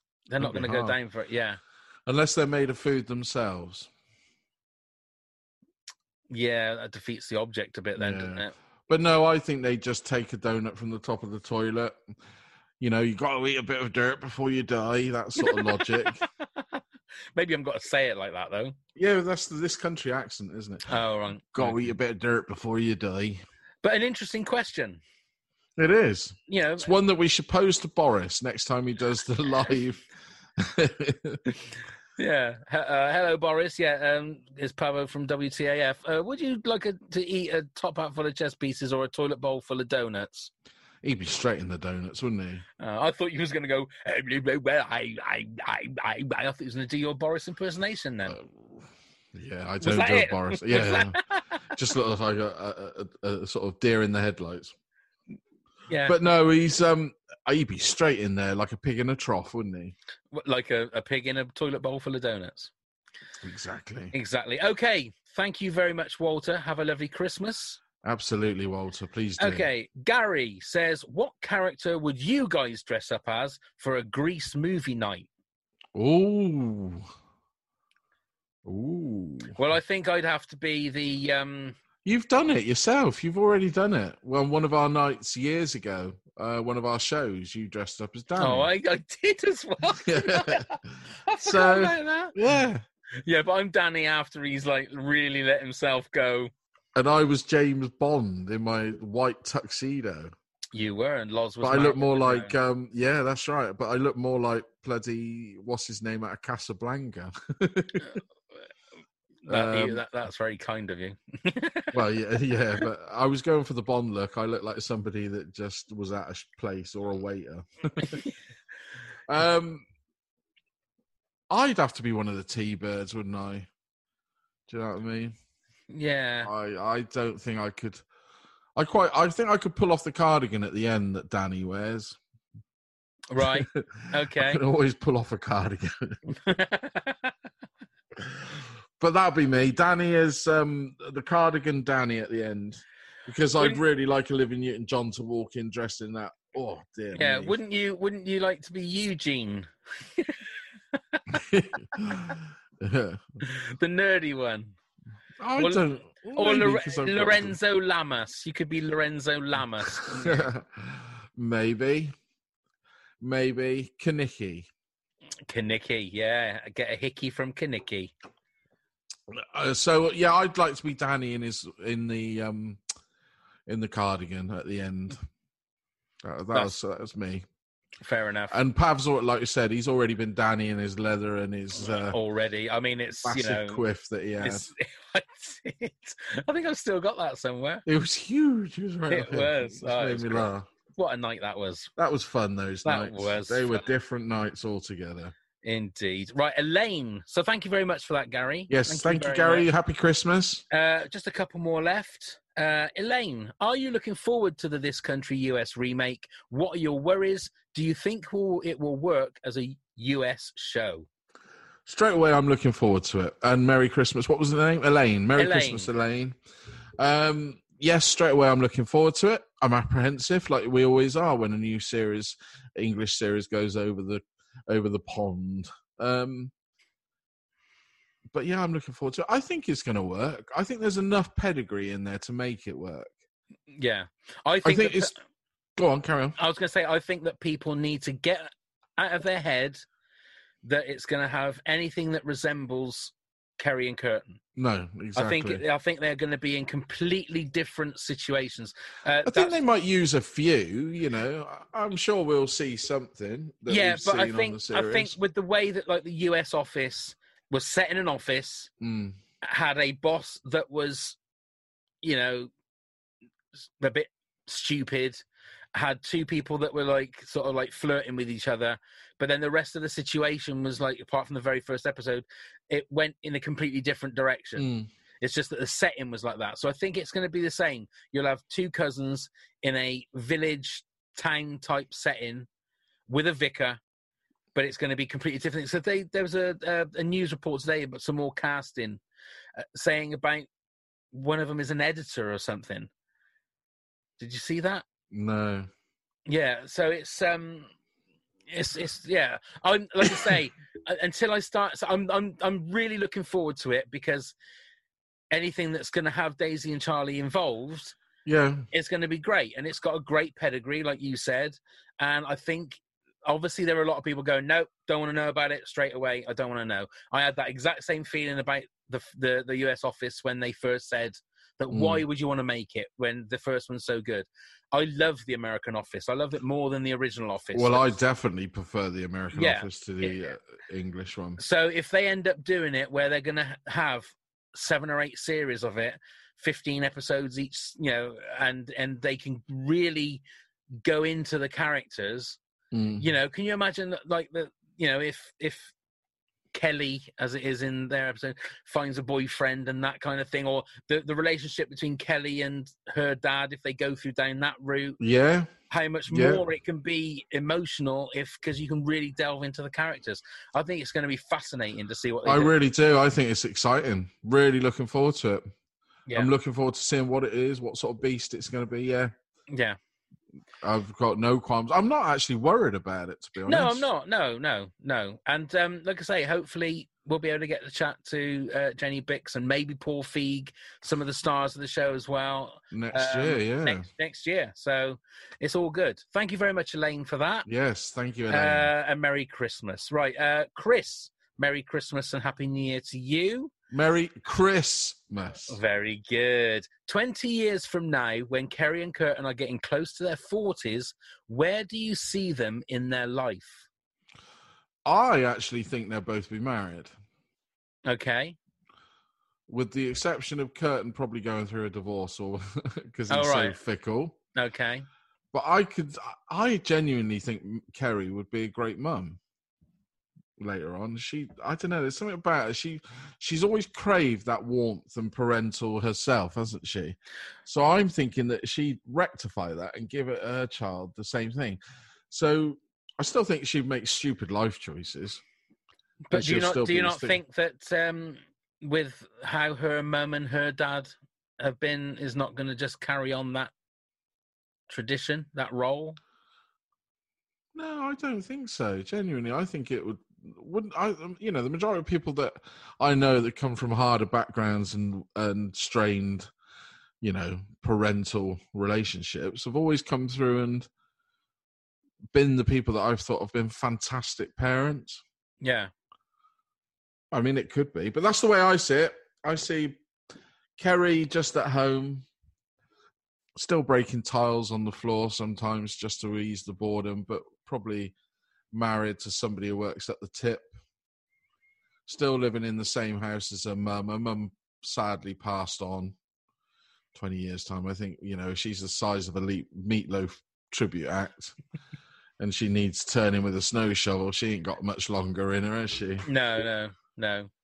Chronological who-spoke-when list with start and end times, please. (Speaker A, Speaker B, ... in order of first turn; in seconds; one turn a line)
Speaker A: 0.3-1.6
Speaker B: 0.4-1.0
Speaker B: 2.0-3.9
Speaker A: 6.3-8.5
Speaker B: 8.0-12.0
Speaker B: 12.8-16.2
Speaker A: 15.4-16.8
Speaker A: 17.4-18.8
Speaker B: 18.9-20.9
Speaker A: 20.9-21.8
Speaker B: 21.5-23.4
Speaker A: 23.8-25.0
Speaker B: 25.8-30.1
Speaker A: 26.5-26.9
Speaker B: 30.6-31.4
Speaker A: 32.2-40.5
Speaker B: 41.0-42.6
Speaker A: 42.8-48.4
Speaker B: 48.3-51.2
Speaker A: 49.8-51.5
Speaker B: 51.7-54.7
Speaker A: 55.9-56.2
Speaker B: 56.1-59.9
Speaker A: 60.3-62.7
Speaker B: 63.4-64.1
Speaker A: 64.1-67.8
Speaker B: 68.0-69.7
Speaker A: 69.4-75.3
Speaker B: 75.9-77.1
Speaker B: 78.6-79.5
Speaker A: 79.5-81.8
Speaker B: 82.0-88.7
Speaker A: 88.4-92.3
Speaker B: 90.0-90.7
Speaker B: 91.4-92.8
Speaker A: 93.2-96.5
Speaker B: 96.9-100.3
Speaker A: 100.7-102.5
Speaker B: 101.6-108.2
Speaker A: 109.5-112.0
Speaker B: 109.5-110.0
Speaker B: 111.9-118.2
Speaker B: 119.3-119.8
Speaker B: 121.5-123.7
Speaker B: 124.7-125.3
Speaker A: 125.9-126.5
Speaker B: 126.4-128.0
Speaker B: 128.8-132.2
Speaker A: 133.3-134.6
Speaker B: 133.4-136.2
Speaker A: 136.3-137.3
Speaker B: 138.2-147.6
Speaker A: 147.1-150.4
Speaker B: 151.3-153.4
Speaker A: 153.4-154.7
Speaker B: 155.4-157.6
Speaker A: 155.6-155.8
Speaker A: 156.3-160.4
Speaker B: 160.0-162.1
Speaker B: 163.2-164.7
Speaker A: 165.5-168.1
Speaker B: 169.3-172.8
Speaker B: 173.7-175.2
Speaker B: 176.2-177.4
Speaker A: 178.0-178.6
Speaker B: 178.5-182.2
Speaker A: 181.8-183.8
Speaker B: 183.2-184.7
Speaker A: 184.4-187.8
Speaker B: 187.8-190.7
Speaker A: 189.1-191.9
Speaker B: 192.0-195.3
Speaker A: 192.8-193.8
Speaker A: 195.6-199.7
Speaker B: 198.7-200.6
Speaker A: 200.7-211.1
Speaker B: 211.8-216.3
Speaker A: 215.4-215.9
Speaker B: 217.0-226.5
Speaker B: 228.3-233.1
Speaker A: 233.7-235.1
Speaker B: 234.6-235.1
Speaker B: 235.8-236.4
Speaker A: 236.4-239.8
Speaker A: 240.6-244.4
Speaker B: 244.6-245.6
Speaker A: 245.1-249.6
Speaker B: 249.2-255.1
Speaker A: 253.7-258.7
Speaker B: 258.8-259.2
Speaker A: 259.4-261.2
Speaker A: 262.0-262.5
Speaker A: 263.8-265.2
Speaker A: 265.7-274.6
Speaker B: 274.6-274.9
Speaker A: 275.2-282.5
Speaker A: 283.1-283.8
Speaker A: 284.5-289.0
Speaker A: 289.6-290.5
Speaker A: 291.1-292.9
Speaker A: 294.2-294.8
Speaker B: 295.1-295.7
Speaker A: 296.3-297.7
Speaker A: 298.5-304.3
Speaker A: 305.3-307.9
Speaker B: 308.2-308.6
Speaker A: 308.7-328.0
Speaker B: 321.7-322.0
Speaker B: 327.5-331.4
Speaker A: 329.3-330.2
Speaker A: 331.4-340.2
Speaker A: 340.8-342.4
Speaker B: 342.7-343.1
Speaker A: 343.0-345.7
Speaker A: 346.5-355.0
Speaker B: 355.0-355.5
Speaker A: 355.7-362.5
Speaker B: 356.1-356.4
Speaker B: 362.2-365.5
Speaker B: 366.1-369.1
Speaker A: 369.5-369.8
Speaker B: 370.6-373.9
Speaker A: 373.4-387.5
Speaker B: 382.7-383.9
Speaker B: 387.4-388.7
Speaker A: 388.3-393.5
Speaker B: 393.7-395.6
Speaker A: 395.5-403.7
Speaker B: 404.8-406.9
Speaker A: 407.9-408.4
Speaker B: 409.5-414.2
Speaker A: 413.1-413.6
Speaker A: 414.3-414.9
Speaker B: 415.3-419.2
Speaker B: 420.4-435.2
Speaker A: 436.1-443.5
Speaker B: 436.1-437.2
Speaker A: 444.7-446.0
Speaker B: 447.5-456.3
Speaker B: 457.0-460.7
Speaker B: 462.1-465.0
Speaker A: 465.4-465.7
Speaker B: 467.1-469.8
Speaker B: 470.6-472.1
Speaker B: 473.3-477.9
Speaker B: 478.5-480.5
Speaker B: 481.9-485.9
Speaker B: 486.9-491.4
Speaker B: 492.2-496.1
Speaker A: 496.0-497.3